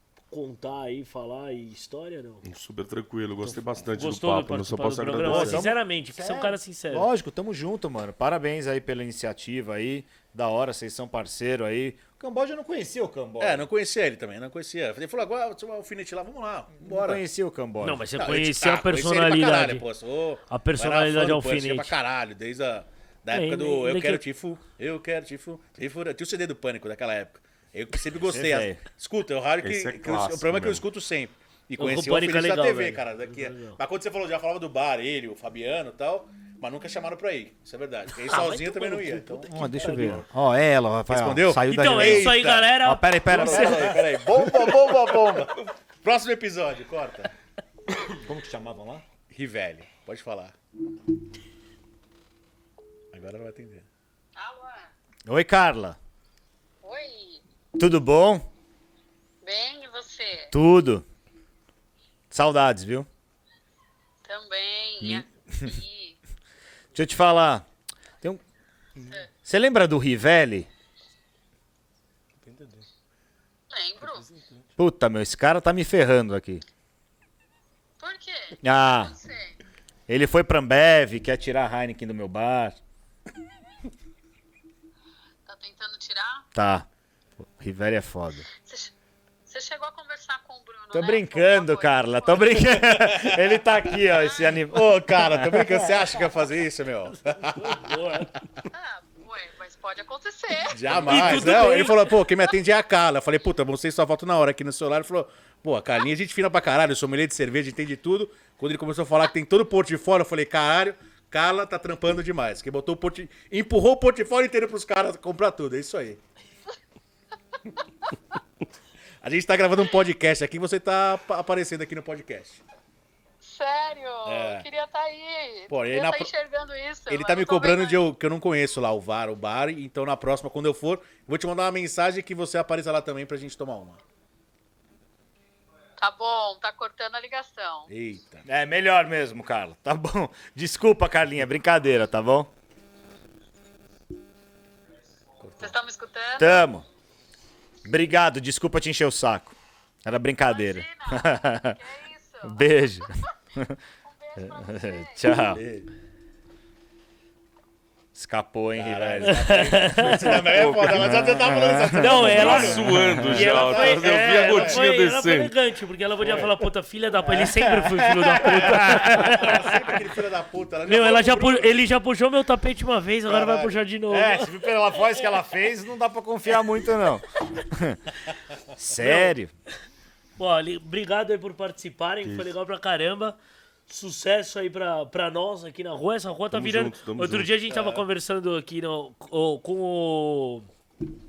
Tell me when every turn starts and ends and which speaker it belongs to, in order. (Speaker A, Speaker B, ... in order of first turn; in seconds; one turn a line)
Speaker A: 0.3-2.4
Speaker B: 2.4-5.7
Speaker A: 3.5-7.1
Speaker C: 5.2-13.6
Speaker D: 13.4-17.2
Speaker C: 16.8-18.0
Speaker A: 17.8-19.9
Speaker D: 18.1-40.2
Speaker A: 20.5-21.9
Speaker A: 23.3-24.2
Speaker C: 28.3-28.8
Speaker B: 29.6-30.8
Speaker A: 31.8-33.8
Speaker A: 38.1-40.2
Speaker C: 39.4-45.1
Speaker D: 41.1-42.7
Speaker A: 41.7-44.1
Speaker D: 43.3-47.3
Speaker C: 48.1-49.0
Speaker D: 49.3-50.5
Speaker D: 53.1-53.9
Speaker E: 54.4-54.9
Speaker C: 55.2-56.0
Speaker E: 56.8-57.4
Speaker C: 57.7-58.5
Speaker E: 59.4-60.5
Speaker C: 60.5-61.0
Speaker C: 62.3-63.1
Speaker E: 64.2-66.2
Speaker C: 65.0-65.7
Speaker C: 66.9-67.7
Speaker E: 69.0-69.3
Speaker C: 69.4-70.7
Speaker B: 72.5-72.8
Speaker E: 73.7-74.3
Speaker B: 74.1-74.6
Speaker C: 74.8-76.6
Speaker E: 78.0-79.6
Speaker C: 78.6-79.2
Speaker C: 80.1-82.8
Speaker E: 85.5-86.5
Speaker C: 86.5-86.8
Speaker C: 87.4-88.5
Speaker E: 88.5-88.9
Speaker E: 89.5-93.1
Speaker C: 90.9-96.0
Speaker D: 93.0-93.4
Speaker E: 94.1-94.5
Speaker D: 94.6-97.9
Speaker A: 97.4-98.4
Speaker E: 98.7-101.7
Speaker D: 100.7-116.2
Speaker A: 100.9-102.2
Speaker D: 119.2-122.6
Speaker E: 123.4-128.0
Speaker D: 124.2-124.6
Speaker D: 125.7-126.3
Speaker D: 127.1-134.0
Speaker E: 136.0-137.9
Speaker D: 137.9-138.4
Speaker C: 138.4-142.5
Speaker D: 145.4-145.7
Speaker E: 145.6-146.7
Speaker C: 146.4-146.8
Speaker C: 147.8-151.8
Speaker E: 150.4-153.3
Speaker C: 152.4-153.8
Speaker E: 154.0-155.6
Speaker C: 154.4-155.6
Speaker D: 155.4-155.9
Speaker C: 158.1-163.9
Speaker D: 158.7-164.8
Speaker A: 159.2-160.6
Speaker B: 160.5-161.2
Speaker A: 161.9-169.9
Speaker B: 162.2-165.5
Speaker D: 166.2-166.5
Speaker C: 167.2-169.5
Speaker D: 168.3-171.8
Speaker A: 170.8-175.2
Speaker D: 173.2-173.8
Speaker C: 174.1-178.1
Speaker C: 178.7-179.5
Speaker A: 179.0-179.3
Speaker A: 180.4-183.3
Speaker B: 182.2-182.5
Speaker A: 183.9-190.7
Speaker B: 186.5-187.5
Speaker D: 187.7-188.0